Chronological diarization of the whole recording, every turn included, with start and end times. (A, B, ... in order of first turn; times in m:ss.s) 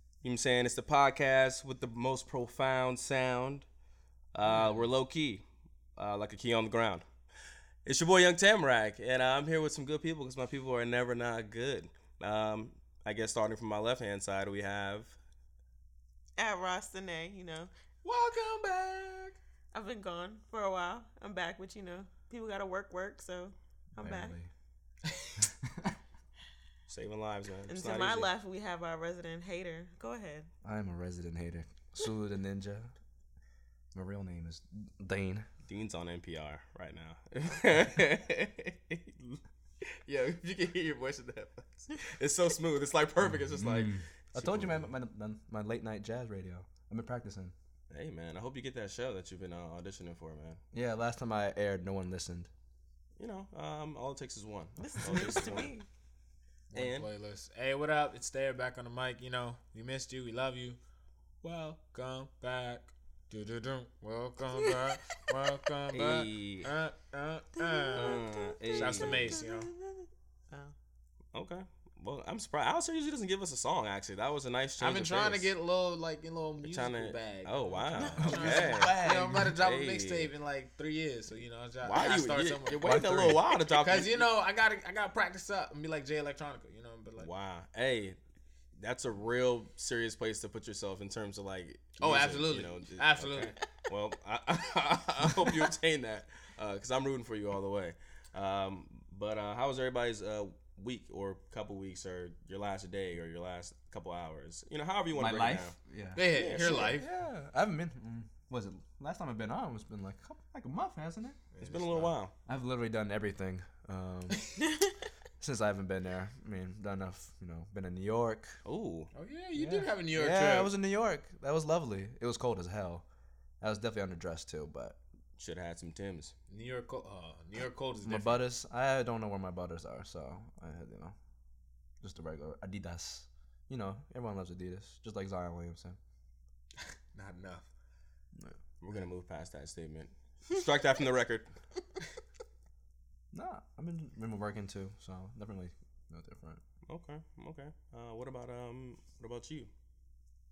0:00.2-0:03.7 A
0:04.3-0:05.4 A
0:04.4-0:04.8 B
0:06.0-0:07.1 A
0:07.8-0:15.2 A
0:16.4-0:17.7 C
0:18.0-0:19.4 B
0:19.7-0:24.4 C
0:24.0-0:24.5 D
0:26.9-0:28.3 A
0:27.7-0:30.5 C
0:30.6-0:32.9 D
0:33.9-0:35.5 D
0:35.7-0:44.9 A
0:43.5-0:47.5 D
0:47.9-0:50.6 A
0:50.7-0:52.5 D
0:53.2-0:55.7 A
0:54.8-0:55.9 C
0:56.7-1:00.8 B
0:56.7-0:57.1 A
1:01.4-1:09.7 B
1:05.9-1:06.7 A
1:07.6-1:10.8 C
1:08.0-1:09.4 A
1:11.3-1:15.5 A
1:14.8-1:22.9 B
1:16.6-1:20.3 A
1:18.0-1:18.5 C
1:18.2-1:19.6 D
1:21.8-1:24.3 A
1:22.8-1:23.4 D
1:23.7-1:27.3 B
1:27.2-1:28.2 A
1:28.8-1:45.8 A
1:32.0-1:33.6 B
1:45.1-1:51.4 D
1:46.2-1:47.1 B
1:46.3-1:47.0 A
1:51.5-1:52.2 B
1:51.6-1:52.3 A
1:52.5-1:54.4 D
1:55.4-1:58.6 D
1:58.6-1:59.1 A
1:59.1-2:00.7 B
1:59.6-2:03.0 D
2:03.6-2:05.0 D
2:05.4-2:06.4 A
2:06.5-2:08.4 B
2:08.0-2:11.2 D
2:12.0-2:16.0 D
2:17.1-2:17.7 B
2:18.8-2:21.5 A
2:23.3-2:26.6 D
2:26.9-2:29.7 A